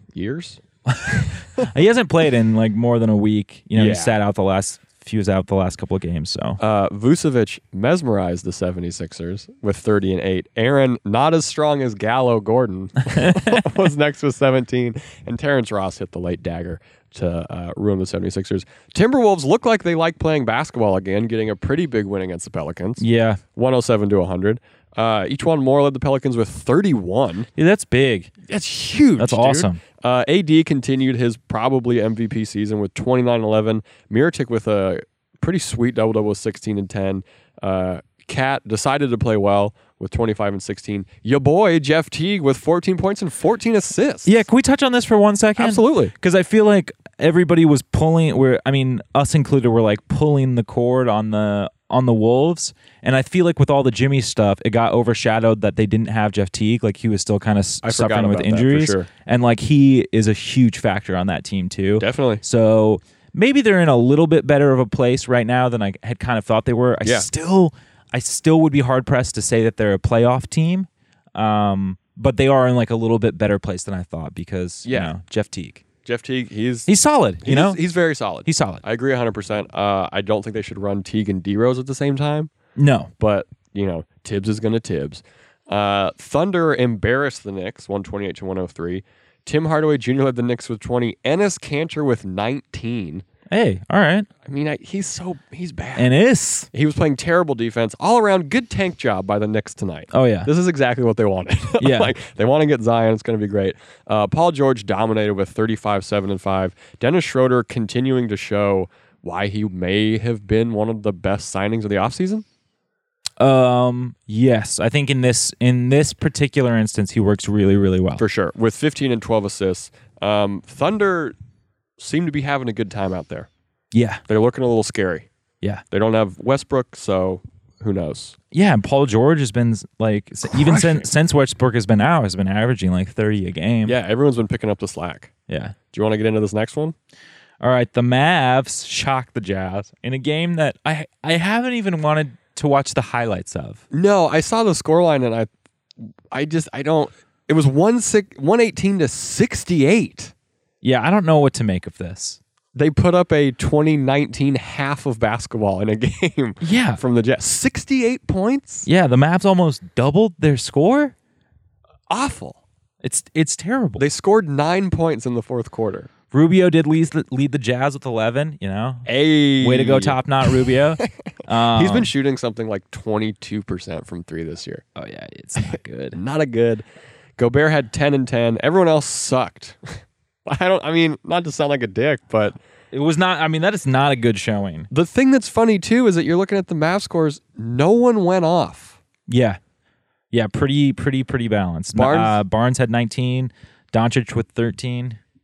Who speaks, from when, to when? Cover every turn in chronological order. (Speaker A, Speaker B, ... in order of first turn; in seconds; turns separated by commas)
Speaker A: 0.1-1.6, Speaker B: 0.9-6.6, Speaker A: 3.8-4.1, Speaker A: 6.6-23.0, Speaker B: 13.1-13.6, Speaker B: 23.0-23.4, Speaker A: 23.5-27.5, Speaker B: 27.6-28.3, Speaker A: 28.4-44.4, Speaker B: 29.2-29.8, Speaker B: 44.2-75.8, Speaker A: 45.6-46.1, Speaker A: 57.8-59.1, Speaker A: 62.0-62.4, Speaker A: 74.8-75.1, Speaker A: 76.0-76.9, Speaker B: 76.9-77.8, Speaker A: 77.4-82.5, Speaker B: 78.4-78.8, Speaker B: 82.8-83.1, Speaker A: 83.2-93.2, Speaker B: 93.5-94.3, Speaker A: 94.4-96.1, Speaker B: 96.0-96.7, Speaker A: 96.7-112.4, Speaker B: 100.1-100.5, Speaker B: 101.8-102.1, Speaker B: 113.4-118.2, Speaker A: 118.2-121.3, Speaker A: 122.0-123.5, Speaker B: 123.9-124.2, Speaker A: 124.3-125.3, Speaker A: 125.9-128.3, Speaker B: 128.5-134.0, Speaker A: 130.5-131.1, Speaker A: 133.8-135.3, Speaker B: 135.5-135.7, Speaker A: 135.9-136.9, Speaker B: 137.6-143.8, Speaker A: 143.9-145.5, Speaker A: 146.3-150.3, Speaker B: 150.8-152.4, Speaker A: 152.7-158.9, Speaker B: 156.6-157.0, Speaker B: 158.8-161.1, Speaker A: 162.1-162.6, Speaker B: 163.0-164.0, Speaker A: 164.0-166.1, Speaker B: 166.3-169.1, Speaker A: 169.1-174.8, Speaker B: 169.6-172.1, Speaker B: 174.9-176.2, Speaker A: 175.7-176.8, Speaker A: 177.4-182.6, Speaker B: 182.9-184.9, Speaker A: 184.9-189.0, Speaker B: 189.3-189.6, Speaker B: 190.3-195.2, Speaker A: 191.9-192.4